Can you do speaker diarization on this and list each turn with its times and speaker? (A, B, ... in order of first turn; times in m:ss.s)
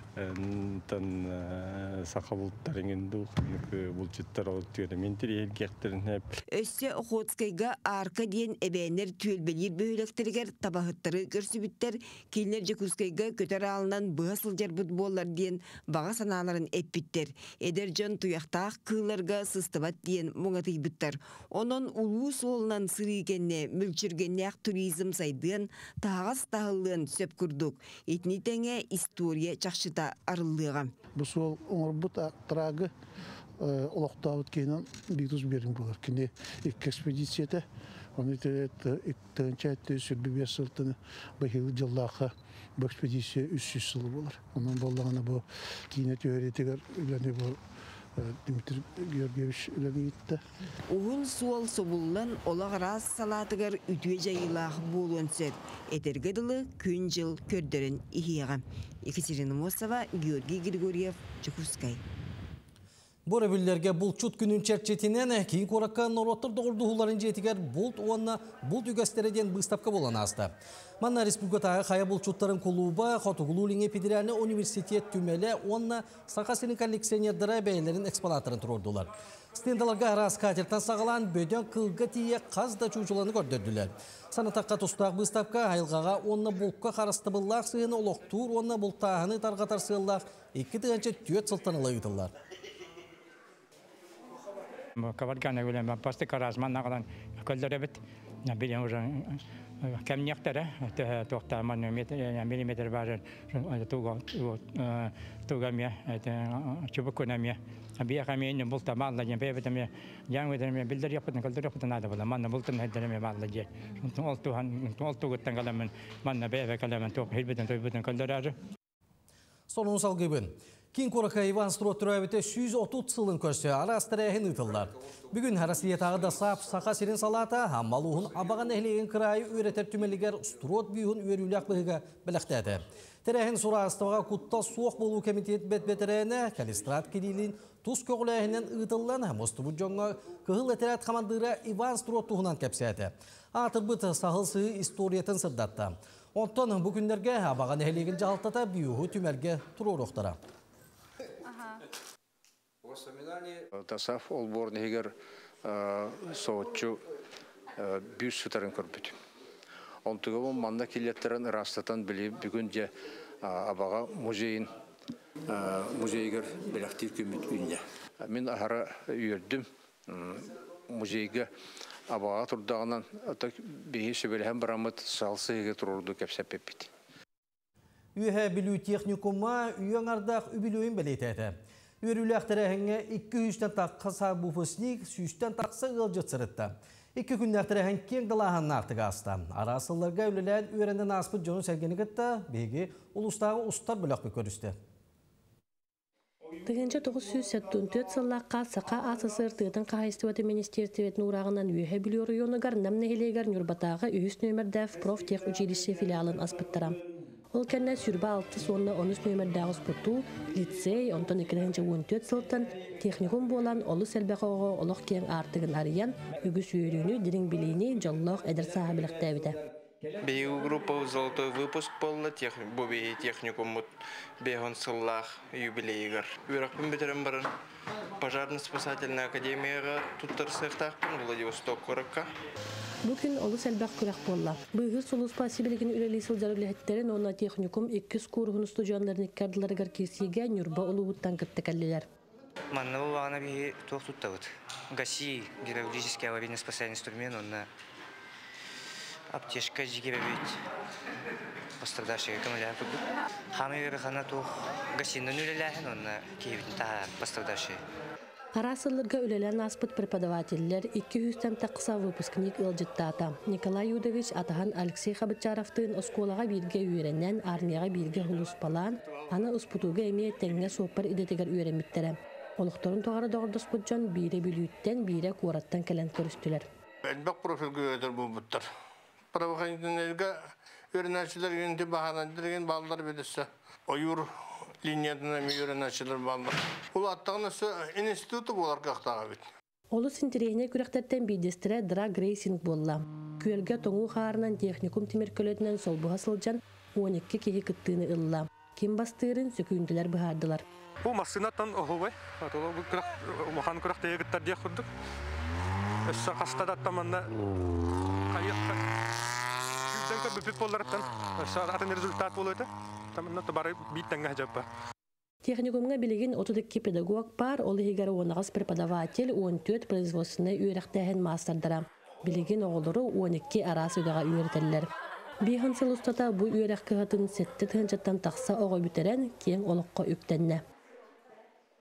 0:00.2-0:06.2 A
0:06.5-0:30.9 B
0:31.2-0:32.9 C
0:33.6-0:37.6 C
0:38.2-0:47.6 C
0:48.2-0:50.4 C
0:50.9-1:02.0 B
1:03.3-1:32.3 D
1:35.0-1:58.6 E
1:59.7-2:30.4 D
2:33.7-2:35.1 F
2:35.6-2:37.0 F
2:37.8-2:39.2 F
2:40.0-2:42.9 F
2:43.4-2:44.7 F
2:45.5-2:51.5 F
2:52.1-2:56.9 F
2:58.2-3:14.8 D
3:16.6-3:27.0 G
3:27.5-3:39.6 G
3:40.2-3:47.5 H
3:48.2-3:52.3 H
3:53.0-4:02.1 G
4:02.7-4:07.7 I
4:09.3-4:10.6 I
4:11.8-4:13.0 I
4:13.5-4:17.8 I
4:18.6-4:36.7 G
4:37.1-4:38.7 J
4:39.3-4:40.4 J
4:40.9-4:44.3 J
4:44.8-4:49.4 J
4:49.9-5:00.6 G
5:01.0-5:04.8 K
5:06.1-5:07.2 K
5:08.3-5:08.8 K
5:09.9-5:14.6 K
5:15.4-5:24.9 G
5:25.4-5:30.6 G